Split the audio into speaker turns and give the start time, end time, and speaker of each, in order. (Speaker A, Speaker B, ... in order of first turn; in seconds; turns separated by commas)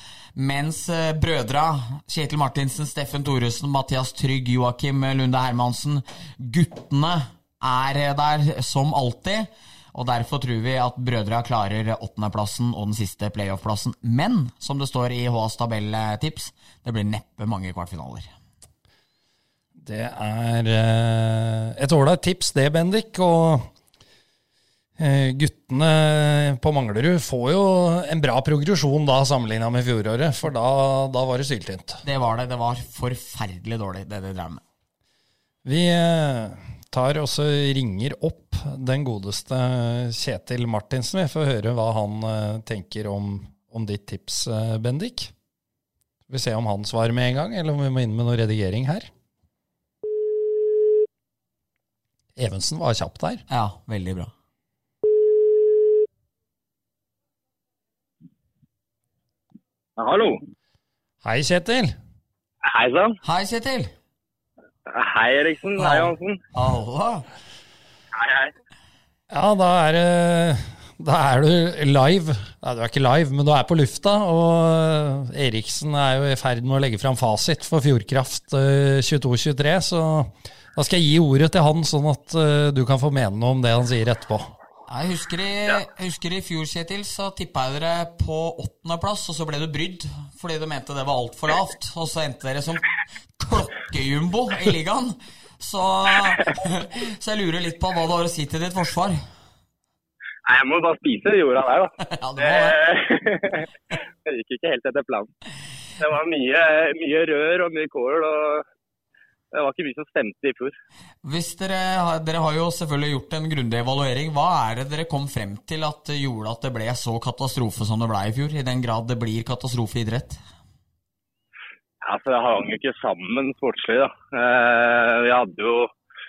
Speaker A: 0.3-18.3, Speaker B: 19.8-23.7, Speaker B: 25.0-32.0, Speaker A: 32.0-34.6, Speaker B: 35.6-45.3, Speaker B: 46.3-49.1, Speaker B: 52.4-53.4, Speaker A: 53.5-54.3, Speaker C: 60.0-60.4, Speaker B: 61.2-62.0, Speaker C: 62.6-63.2, Speaker A: 63.2-63.9, Speaker C: 64.9-66.4, Speaker A: 65.8-67.2, Speaker C: 68.1-68.5, Speaker B: 69.3-84.5, Speaker A: 84.9-92.8, Speaker A: 93.4-99.2, Speaker C: 100.5-103.7, Speaker A: 102.0-102.8, Speaker C: 104.2-105.3, Speaker C: 106.0-108.6, Speaker C: 109.5-110.8, Speaker A: 111.2-120.4, Speaker C: 122.0-125.9